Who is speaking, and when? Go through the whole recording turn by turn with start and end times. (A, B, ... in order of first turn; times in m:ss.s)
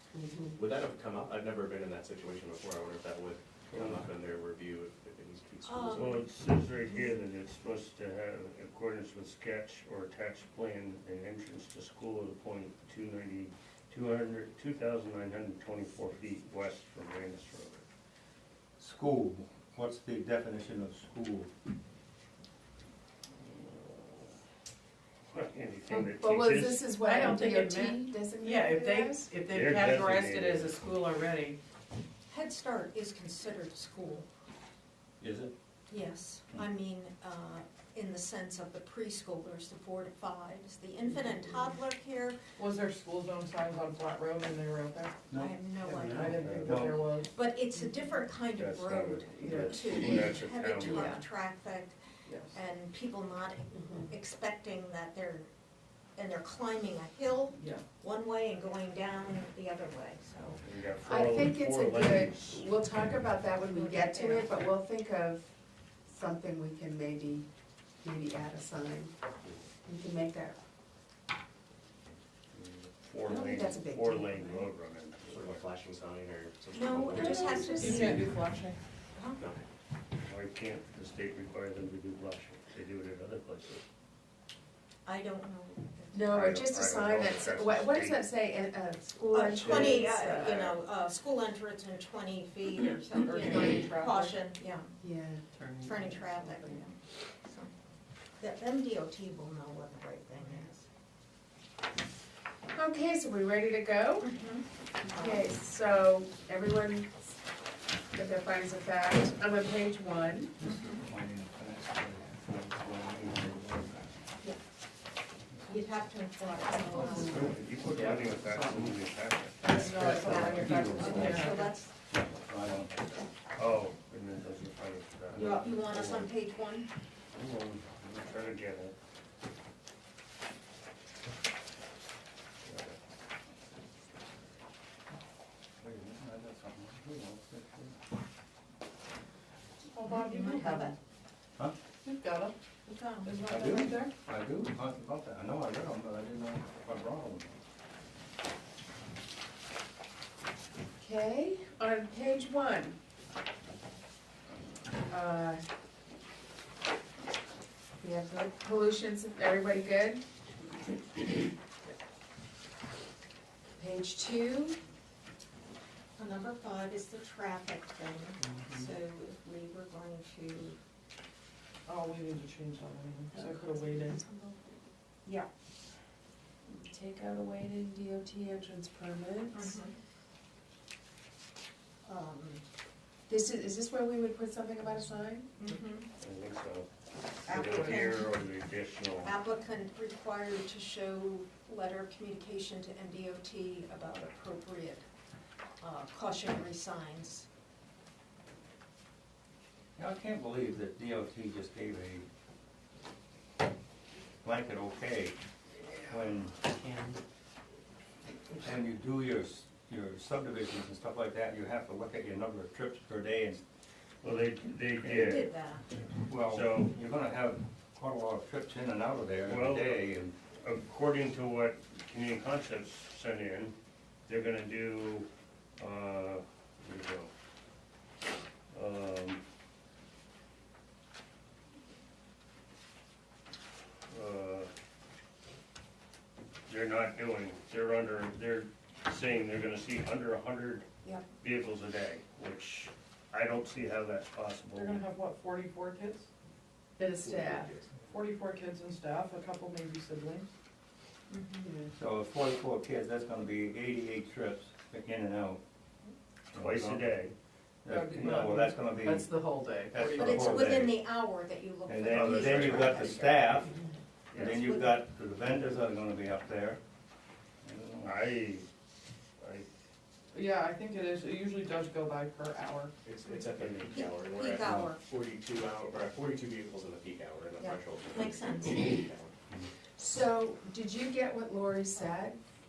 0:00.1-0:00.6 A
0:00.5-0:06.2 B
0:03.7-0:04.0 C
0:05.6-0:06.2 D
0:05.9-0:17.8 E
0:18.8-0:21.5 C
0:23.4-0:24.3 E
0:25.3-0:26.9 E
0:25.9-0:29.4 A
0:27.0-0:31.6 F
0:29.5-0:30.8 E
0:32.3-0:34.3 D
0:35.2-0:35.5 C
0:35.9-0:42.4 D
0:42.6-0:45.2 G
0:45.3-0:47.1 C
0:45.3-0:52.0 D
0:45.8-0:47.3 G
0:46.3-0:46.8 E
0:48.6-0:51.2 E
0:49.3-0:49.9 G
0:50.8-0:51.2 A
0:52.3-0:52.6 G
0:52.5-0:55.5 D
0:56.2-1:00.6 D
0:57.6-0:57.8 G
1:00.6-1:02.7 E
1:01.0-1:05.5 A
1:03.7-1:04.7 D
1:06.1-1:07.5 A
1:08.0-1:09.1 A
1:09.8-1:10.6 A
1:12.5-1:15.6 E
1:13.2-1:14.7 A
1:15.2-1:18.0 B
1:16.7-1:18.3 D
1:17.1-1:18.2 A
1:17.8-1:18.8 G
1:19.2-1:19.4 D
1:19.4-1:19.6 B
1:20.2-1:23.8 E
1:25.1-1:26.5 D
1:26.1-1:30.8 A
1:26.3-1:28.2 E
1:29.3-1:35.0 D
1:33.2-1:34.3 G
1:35.0-1:35.5 A
1:35.6-1:36.3 F
1:35.8-1:37.7 D
1:38.4-1:40.8 D
1:42.7-1:44.3 A
1:44.2-1:45.5 D
1:45.0-1:47.3 A
1:48.1-1:50.6 A
1:50.6-1:54.1 C
1:55.7-1:57.5 D
1:57.0-1:59.7 E
1:57.9-1:58.8 F
1:59.6-2:01.7 G
1:59.7-2:03.0 C
2:00.2-2:01.9 D
2:03.6-2:06.3 E
2:05.3-2:06.1 C
2:05.4-2:06.9 D
2:07.4-2:08.1 C
2:08.0-2:09.0 E
2:12.6-2:13.0 E
2:15.8-2:18.0 C
2:19.9-2:21.0 G
2:20.0-2:21.0 D
2:22.0-2:22.6 G
2:22.9-2:23.4 D
2:23.2-2:24.1 G
2:23.5-2:27.5 C
2:31.0-2:33.0 A
2:35.1-2:35.6 A
2:38.0-2:40.2 A
2:43.8-2:44.8 A
2:46.2-2:50.8 D
2:51.8-2:54.2 G
2:53.3-2:54.6 A
2:56.7-2:59.8 A
2:59.5-3:00.0 D
3:02.1-3:02.6 D
3:03.3-3:05.5 A
3:05.6-3:06.1 D
3:06.2-3:06.9 E
3:07.4-3:09.3 E
3:07.5-3:08.1 G
3:07.5-3:08.3 D
3:09.2-3:15.1 D
3:15.8-3:17.5 D
3:20.0-3:22.3 C
3:24.4-3:26.6 C
3:28.6-3:33.6 C
3:34.2-3:35.5 E
3:35.0-3:35.4 C
3:35.1-3:35.9 D
3:36.3-3:40.4 C
3:36.3-3:36.9 E
3:39.4-3:40.0 E
3:40.6-3:43.8 E
3:44.3-3:47.3 E
3:48.7-3:49.4 E
3:54.1-3:54.7 E
3:56.7-4:00.9 E
4:01.4-4:05.0 E
4:04.7-4:06.3 G
4:07.0-4:07.7 A
4:07.2-4:08.0 B
4:08.0-4:10.5 G
4:11.3-4:11.7 D
4:11.6-4:11.9 A
4:12.0-4:15.6 C
4:16.5-4:17.4 E
4:16.5-4:17.1 C
4:17.8-4:21.1 C
4:17.9-4:18.8 G
4:19.0-4:20.5 F
4:20.2-4:23.4 D
4:21.9-4:23.7 C
4:22.2-4:22.5 F
4:24.3-4:24.6 E
4:24.3-4:26.8 C
4:24.4-4:25.0 D
4:27.6-4:28.2 C
4:28.0-4:28.7 E
4:29.4-4:29.7 E
4:30.3-4:32.9 G
4:33.0-4:39.4 B
4:33.5-4:34.0 E
4:33.9-4:35.0 D
4:37.6-4:39.0 D
4:40.0-4:42.4 A